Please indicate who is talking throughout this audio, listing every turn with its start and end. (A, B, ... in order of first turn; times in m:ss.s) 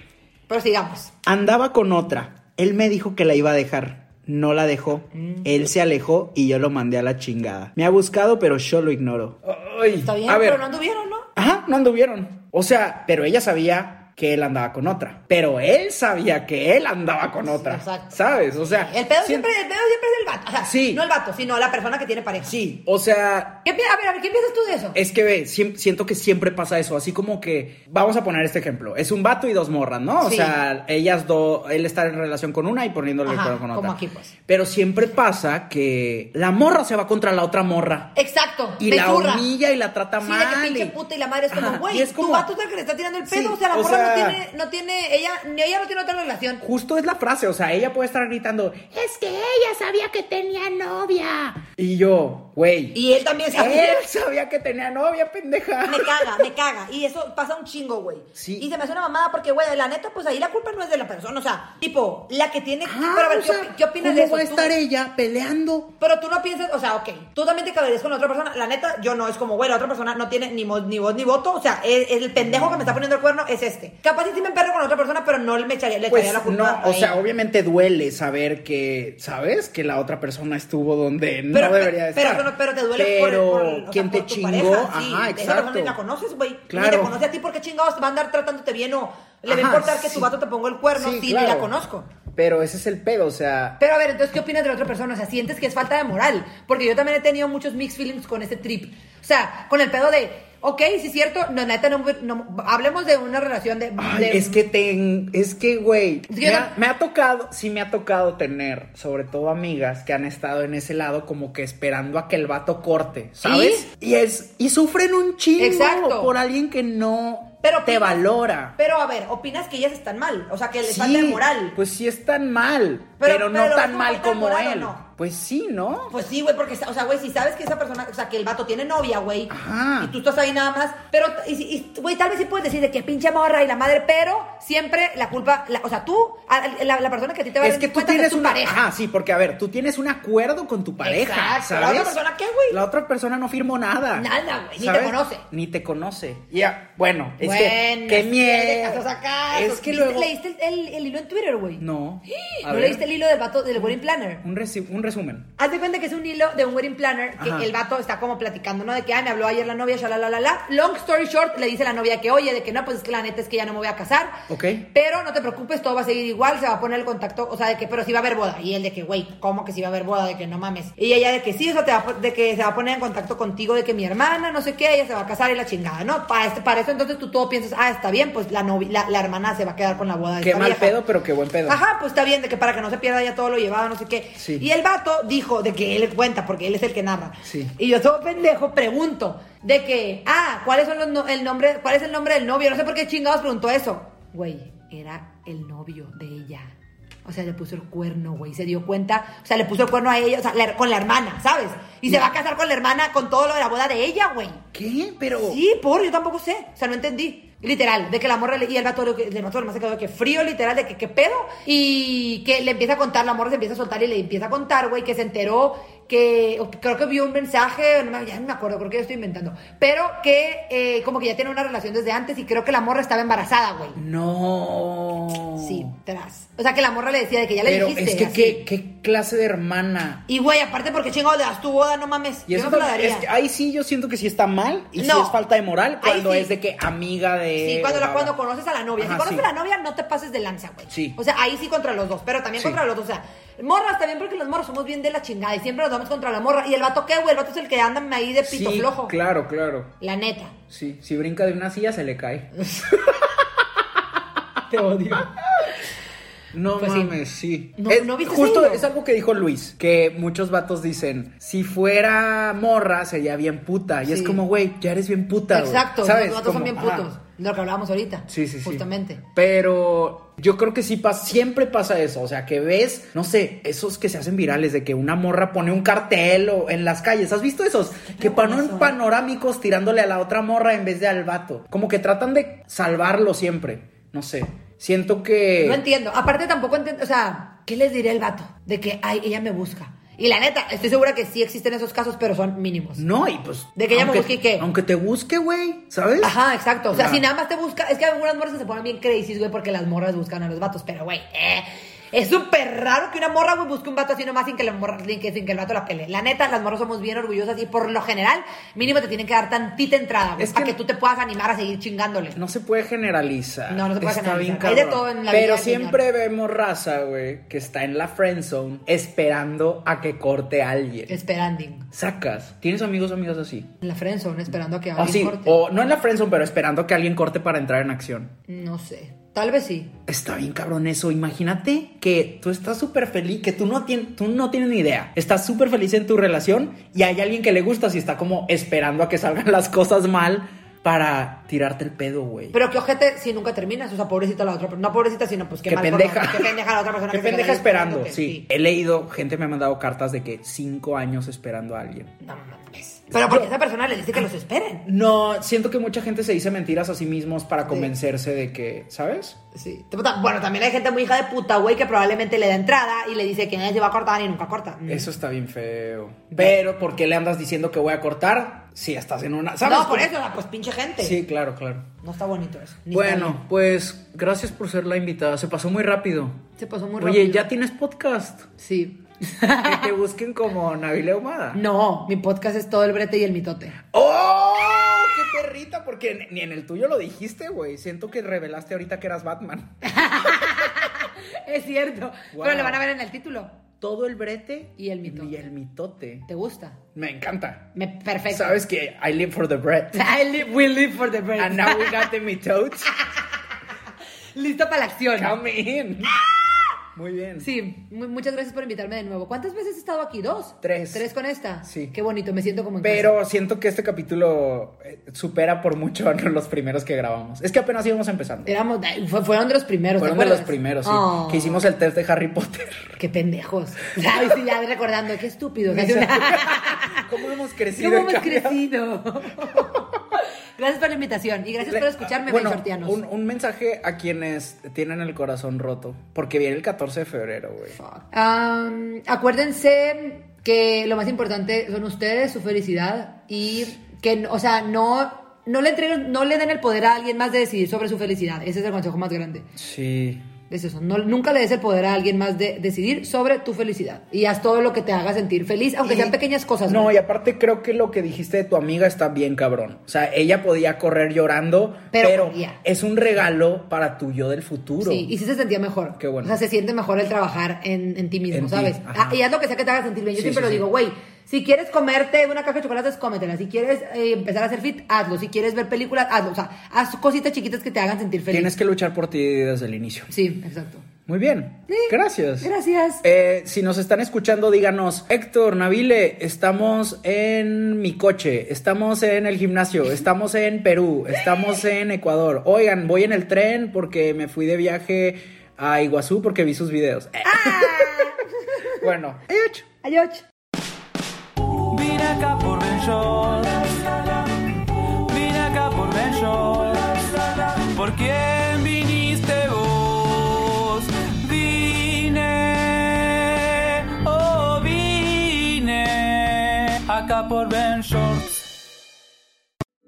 0:00.5-0:01.1 A
0:01.2-0:10.6 B
0:05.1-0:05.5 A
0:09.9-0:11.3 A
0:11.4-0:19.5 B
0:17.4-0:22.5 A
0:20.6-0:21.0 B
0:22.4-0:23.6 B
0:23.6-0:25.0 A
0:24.9-0:38.1 B
0:30.2-0:30.6 A
0:33.2-0:34.3 A
0:38.1-0:39.5 A
0:38.8-0:41.0 B
0:40.2-0:46.6 A
0:41.5-0:42.5 B
0:43.2-0:44.4 B
0:46.6-0:53.0 B
0:52.9-0:54.0 A
0:53.5-0:56.5 B
0:55.8-1:04.7 A
0:58.4-0:58.7 B
1:02.8-1:05.9 B
1:06.0-1:17.2 A
1:12.4-1:13.0 B
1:16.1-1:26.0 B
1:21.5-1:32.1 A
1:26.7-1:27.2 B
1:29.4-1:30.3 B
1:30.9-1:31.7 B
1:32.3-1:33.8 B
1:33.8-1:44.6 A
1:44.0-1:58.8 B
1:46.3-1:46.7 A
1:53.4-1:53.9 A
1:55.6-1:56.3 A
1:57.6-2:01.8 A
2:00.8-2:06.1 B
2:03.2-2:05.0 A
2:06.1-2:18.8 A
2:09.5-2:10.1 B
2:17.6-2:30.3 B
2:21.0-2:22.8 A
2:24.1-2:25.4 A
2:27.4-2:34.4 A
2:31.8-2:33.0 B
2:33.8-2:35.5 B
2:35.6-3:01.0 A
2:37.4-2:37.7 B
2:44.5-2:44.9 B
3:00.4-3:01.8 B
3:01.6-3:16.7 A
3:04.4-3:04.6 B
3:07.4-3:07.7 B
3:17.2-3:24.6 A
3:24.7-3:25.6 B
3:25.4-3:44.0 A
3:43.9-3:45.9 B
3:45.6-3:48.6 A
3:47.6-3:50.2 B
3:50.3-3:53.2 A
3:52.5-3:58.3 B
3:55.0-3:55.4 A
3:56.0-3:56.5 A
3:57.6-4:09.2 A
3:59.0-3:59.5 B
4:00.9-4:01.2 B
4:08.4-4:09.9 B
4:10.0-4:10.6 A
4:10.7-4:13.1 B
4:14.7-4:15.3 A
4:16.5-4:27.1 B
4:16.8-4:17.2 A
4:17.8-4:18.9 A
4:24.0-4:24.4 A
4:25.5-4:29.2 A
4:28.3-4:45.8 B
4:38.0-4:39.0 A
4:45.6-4:53.0 A
4:53.0-4:56.3 B
4:53.7-4:54.7 A
4:56.2-5:12.4 A
4:56.9-4:57.2 B
5:10.4-5:10.8 B
5:12.3-5:21.2 B
5:13.7-5:16.0 A
5:21.1-5:21.9 A
5:21.9-5:23.7 B
5:23.8-5:25.6 A
5:25.0-5:28.3 B
5:28.5-5:30.0 A
5:30.1-5:42.6 B
5:42.5-5:48.4 A
5:45.7-5:46.6 B
5:47.1-5:52.1 B
5:52.2-5:54.8 A
5:53.2-5:53.5 B
5:54.8-5:59.4 B
5:57.6-5:57.9 A
5:59.5-6:05.1 A
6:04.9-6:10.1 B
6:06.3-6:06.6 A
6:09.6-6:11.2 A
6:11.0-6:11.9 B
6:12.0-6:13.4 A
6:12.9-6:16.4 B
6:16.6-6:17.5 A
6:17.0-6:18.5 B
6:18.6-6:19.9 A
6:19.6-6:21.6 B
6:21.5-6:23.8 A
6:23.9-6:29.8 B
6:29.8-6:33.6 A
6:32.3-6:32.8 B
6:33.8-6:36.3 B
6:34.8-6:35.5 A
6:36.3-6:36.8 A
6:36.9-6:37.7 B
6:37.7-6:38.6 A
6:38.3-6:40.0 B
6:39.9-6:42.1 A
6:41.4-6:42.9 B
6:44.3-6:45.4 A
6:45.1-6:46.2 B
6:46.9-6:47.5 B
6:47.4-6:53.1 A
6:50.6-6:51.1 B
6:51.6-6:51.9 B
6:52.8-6:58.5 B
6:58.4-7:01.6 A
7:00.0-7:02.9 B
7:03.0-7:07.1 A
7:05.7-7:08.6 B
7:07.7-7:13.0 A
7:09.5-7:09.8 B
7:11.6-7:17.8 B
7:17.7-7:29.5 A
7:29.6-7:30.2 B
7:30.5-7:37.0 A
7:35.8-7:36.1 B
7:36.7-7:45.1 B
7:41.9-7:42.6 A
7:44.8-7:58.5 A
7:46.0-7:46.4 B
7:48.3-7:49.2 B
7:50.1-7:50.6 B
7:58.3-8:00.1 B
8:00.1-8:00.9 A
8:01.1-8:02.5 B
8:01.7-8:03.0 A
8:03.0-8:18.1 B
8:17.2-8:18.8 A
8:18.7-8:19.7 B
8:19.8-8:20.2 A
8:21.6-8:38.4 C